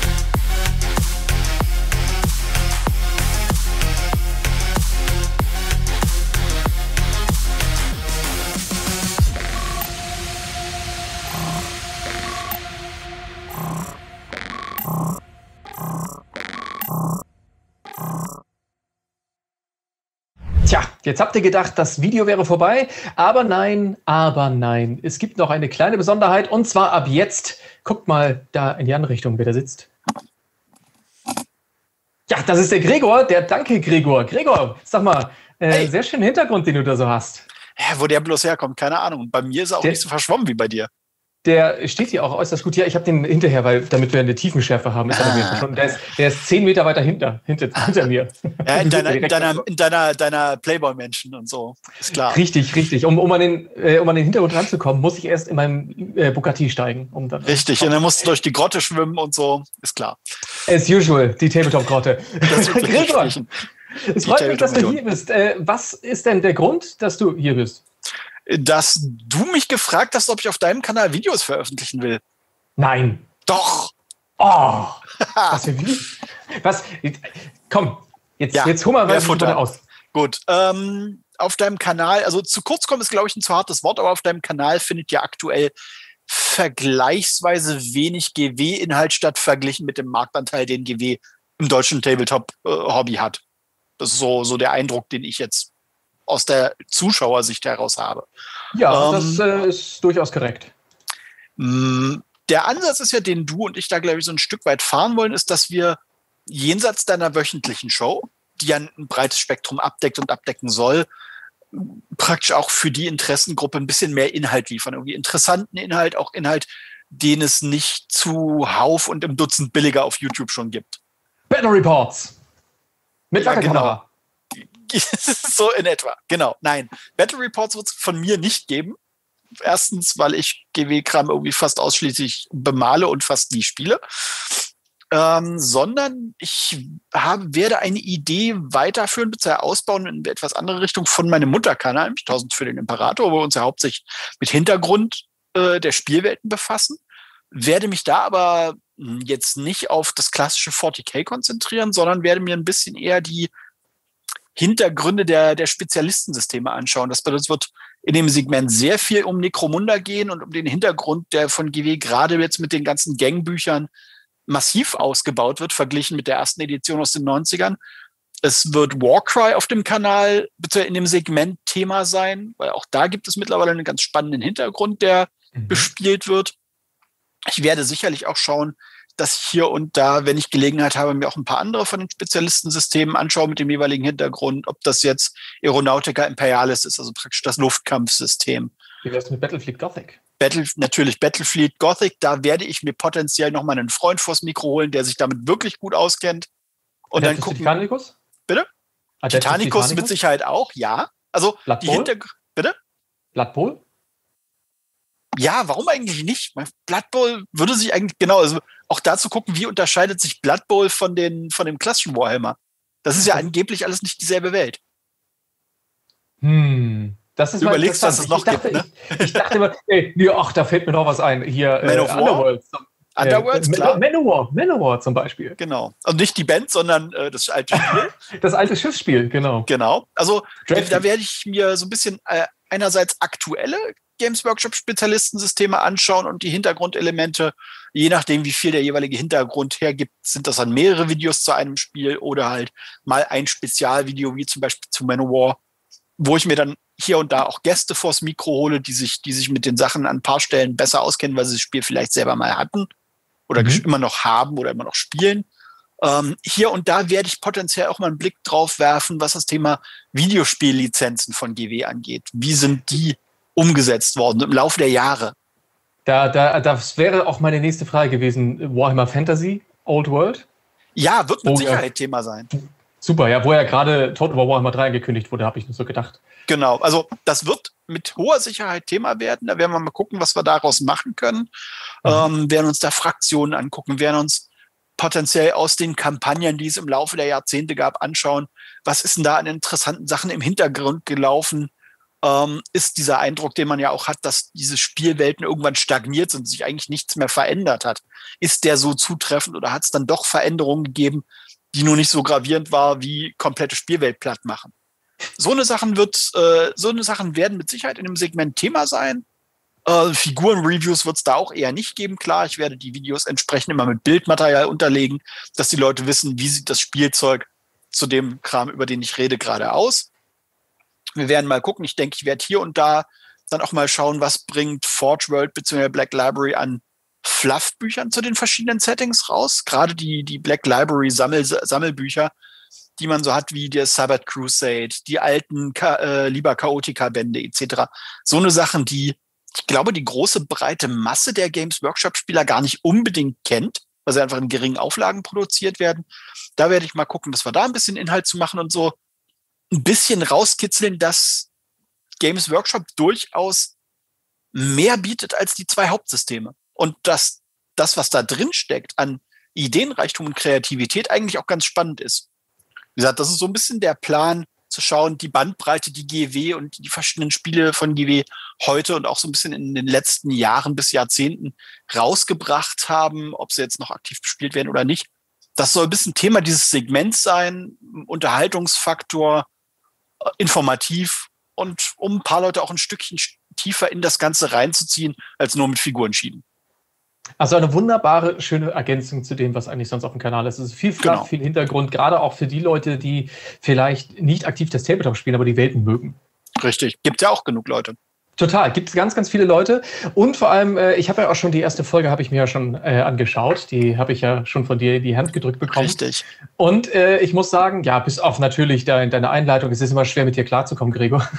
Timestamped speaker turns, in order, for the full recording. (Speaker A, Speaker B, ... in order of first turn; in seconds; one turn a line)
Speaker A: 20.7-29.9
Speaker A: 32.3-37.5
Speaker B: 37.8-40.9
Speaker A: 41.4-49.7
Speaker B: 45.1-45.7
Speaker B: 48.6-52.4
Speaker A: 52.1-58.0
Speaker B: 57.5-60.2
Speaker A: 60.7-63.4
Speaker B: 62.5-63.5
Speaker A: 64.0-67.8
Speaker B: 64.2-65.0
Speaker B: 68.5-72.2
Speaker A: 72.8-73.2
Speaker B: 73.5-73.9
Speaker A: 74.4-79.8
Speaker B: 75.2-75.6
Speaker B: 78.5-79.6
Speaker B: 80.1-85.7
Speaker B: 86.3-93.4
Speaker B: 94.0-95.7
Speaker B: 96.3-98.3
Speaker A: 98.7-100.7
Speaker B: 98.9-99.5
Speaker B: 101.6-111.1
Speaker B: 111.7-121.0
Speaker A: 121.5-122.3
Speaker A: 123.3-124.0
Speaker B: 123.4-124.0
Speaker B: 124.6-129.0
Speaker B: 129.6-147.0
Speaker B: 147.5-153.5
Speaker B: 154.6-163.9
Speaker B: 164.5-167.8
Speaker B: 168.4-176.6
Speaker A: 175.6-175.9
Speaker B: 177.5-188.7
Speaker A: 189.0-190.2
Speaker B: 190.4-196.5
Speaker B: 197.1-197.8
Speaker A: 197.2-198.2
Speaker A: 199.2-200.1
Speaker B: 199.3-202.8
Speaker A: 201.7-202.1
Speaker A: 203.3-203.8
Speaker B: 205.4-214.8
Speaker A: 213.1-213.5
Speaker A: 216.4-225.6
Speaker B: 217.6-219.5
Speaker B: 221.8-222.5
Speaker B: 223.2-224.0
Speaker B: 225.6-228.1
Speaker A: 227.7-229.7
Speaker B: 229.7-245.6
Speaker A: 230.7-231.0
Speaker B: 246.2-252.9
Speaker B: 253.5-255.5
Speaker A: 253.6-253.8
Speaker B: 256.0-265.4
Speaker A: 266.1-270.4
Speaker B: 271.0-272.5
Speaker A: 271.5-271.8
Speaker A: 273.0-276.2
Speaker B: 276.5-281.5
Speaker B: 282.0-284.5
Speaker B: 285.0-291.7
Speaker B: 292.2-304.7
Speaker B: 305.4-309.2
Speaker B: 309.9-320.1
Speaker B: 321.2-332.3
Speaker B: 333.0-349.0
Speaker B: 349.7-351.5
Speaker B: 352.2-353.7
Speaker B: 354.5-362.3
Speaker B: 363.0-379.5
Speaker B: 380.4-386.4
Speaker A: 387.4-396.2
Speaker B: 391.0-391.3
Speaker B: 396.6-398.0
Speaker A: 398.4-406.0
Speaker B: 405.7-406.2
Speaker A: 406.6-411.2